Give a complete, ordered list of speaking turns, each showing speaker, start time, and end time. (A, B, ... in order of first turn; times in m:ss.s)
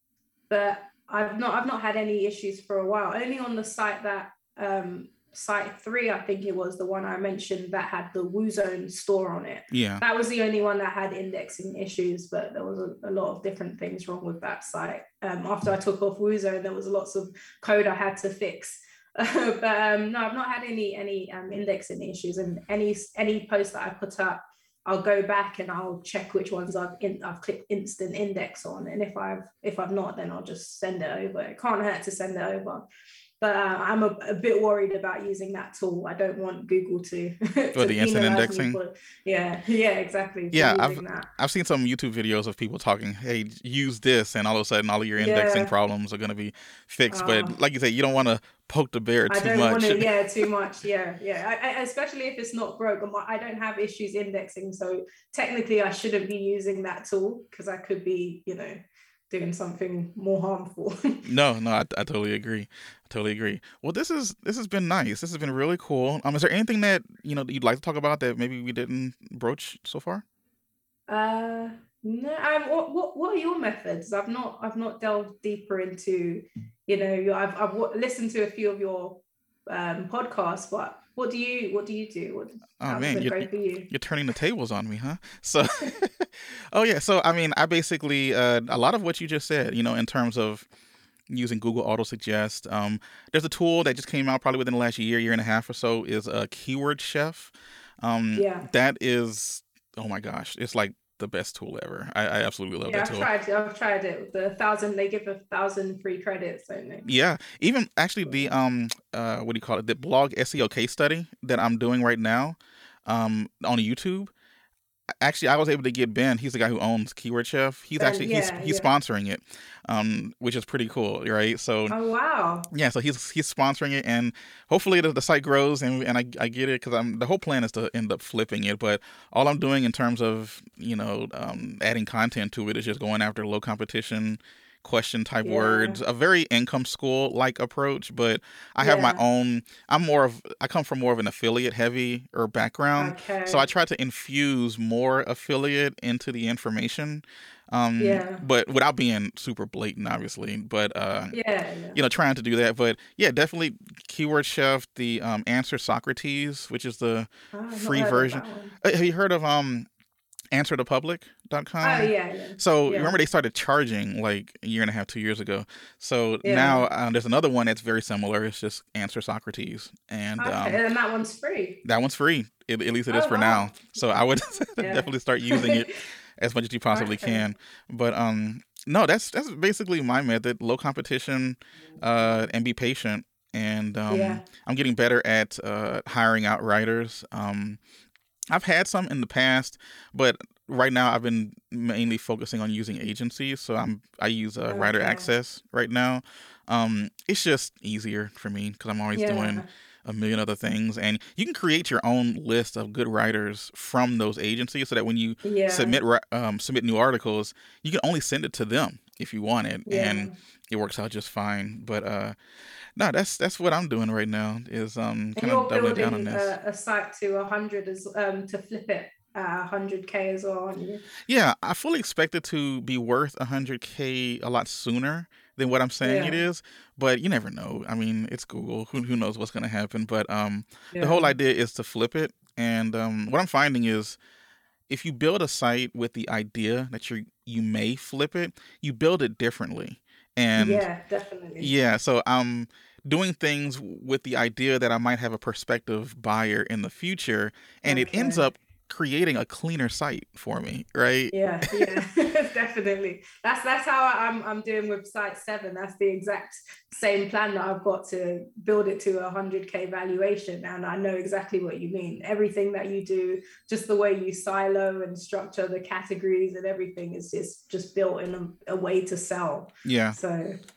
0:00.5-0:32.8 A
0:09.7-0:10.0 B
0:33.4-0:41.3 A
0:37.7-0:38.8 B
0:40.5-0:50.2 B
0:45.2-0:45.7 A
0:47.1-0:47.6 A
0:49.3-1:01.2 A
1:01.2-1:10.2 B
1:11.1-1:23.9 A
1:22.8-1:30.6 B
1:31.3-1:43.3 B
1:38.3-1:38.7 A
1:42.8-1:47.1 A
1:47.0-1:54.3 B
1:55.2-2:01.9 B
1:58.0-1:58.9 A
2:01.9-2:02.7 A
2:02.7-2:31.4 B
2:15.4-2:16.0 A
2:18.8-2:19.2 A
2:23.0-2:23.6 A
2:28.0-2:28.4 A
2:31.3-2:32.0 A
2:31.9-2:39.9 B
2:37.5-2:38.7 A
2:40.5-2:50.8 B
2:41.8-2:43.2 A
2:46.4-2:46.9 A
2:50.4-2:51.8 A
2:51.8-3:07.8 B
2:53.1-2:53.6 A
2:54.8-2:55.8 A
2:56.9-2:57.5 A
3:04.1-3:04.4 A
3:08.5-3:32.4 B
3:14.7-3:15.3 A
3:19.1-3:19.6 A
3:25.4-3:26.0 A
3:29.8-3:30.3 A
3:33.0-3:36.5 B
3:35.4-3:41.0 A
3:41.3-3:54.2 B
3:46.0-3:46.4 A
3:50.9-3:51.3 A
3:54.9-4:00.8 B
4:00.6-4:01.7 A
4:01.6-4:12.0 B
4:07.8-4:08.5 A
4:11.3-4:30.6 A
4:29.8-4:30.2 B